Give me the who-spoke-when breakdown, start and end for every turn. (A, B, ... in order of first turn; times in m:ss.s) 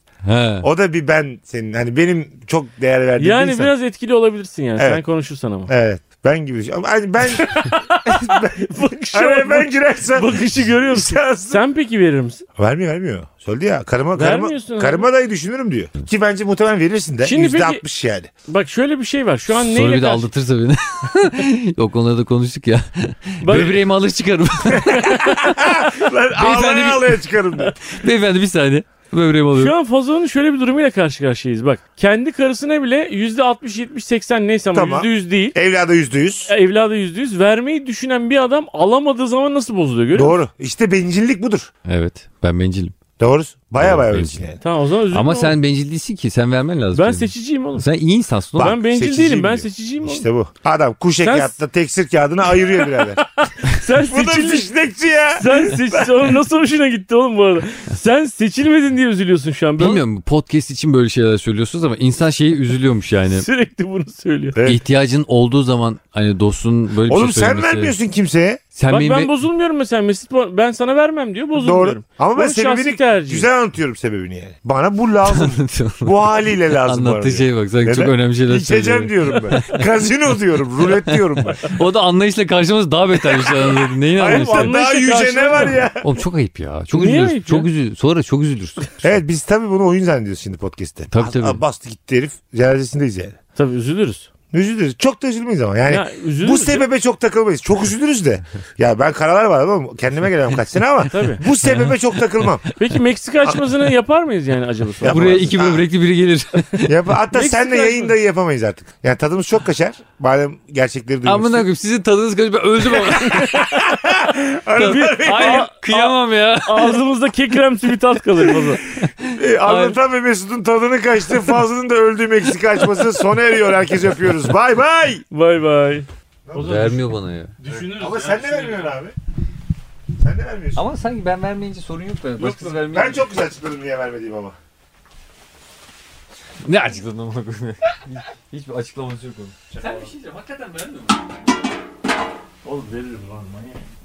0:00.2-0:00.7 A
0:00.6-0:03.7 B
0:03.2-0:05.7 C
0:04.8-0:05.0 B
0:05.7-0:11.6 B
0:07.4-0:12.4 C
0:12.6-0:18.3 B
0:14.2-0:15.1 C
0:17.2-0:17.8 C
0:18.5-0:20.3 C
0:19.5-0:29.7 A
0:23.4-0:23.8 C
0:24.7-0:27.8 B
0:29.5-0:35.6 C
0:34.7-0:36.5 B
0:36.5-0:40.4 C
0:40.1-0:41.7 B
0:41.8-0:43.0 A
0:43.2-0:44.6 B
0:43.8-0:44.5 A
0:44.6-0:45.6 C
0:45.1-0:48.8 A
0:47.0-0:47.9 C
0:48.6-0:53.2 B
0:48.6-0:50.2 C
0:51.2-0:51.5 C
0:53.1-0:54.7 C
0:53.9-0:56.3 B
0:55.3-1:00.0 C
0:59.8-1:03.5 A
1:03.3-1:04.6 C
1:04.6-1:04.8 B
1:04.6-1:08.0 A
1:07.1-1:08.6 B
1:08.8-1:09.3 A
1:08.9-1:13.5 C
1:11.6-1:21.7 B
1:15.3-1:20.0 A
1:20.9-1:24.8 A
1:23.3-1:26.1 B
1:24.2-1:25.8 C
1:26.0-1:29.1 A
1:26.9-1:27.7 C
1:29.0-1:33.4 B
1:31.1-1:31.6 A
1:33.6-1:34.3 C
1:34.5-1:42.7 B
1:35.9-1:36.8 C
1:41.1-1:41.4 C
1:42.8-1:45.4 C
1:45.0-1:45.9 B
1:45.1-1:47.0 A
1:46.8-1:51.7 B
1:47.3-1:48.1 C
1:51.2-1:53.6 A
1:53.0-1:55.7 B
1:53.1-1:53.8 C
1:54.8-1:57.0 A
1:54.8-1:58.8 C
1:58.4-2:00.0 A
1:59.2-2:05.2 B
2:05.3-2:07.0 C
2:06.5-2:06.9 B
2:06.6-2:07.5 A
2:07.6-2:09.0 C
2:07.7-2:09.2 B
2:10.2-2:10.8 B
2:10.8-2:13.3 A
2:12.4-2:12.8 C
2:12.8-2:14.6 B
2:16.6-2:21.2 A
2:19.8-2:20.0 C
2:22.6-2:23.8 C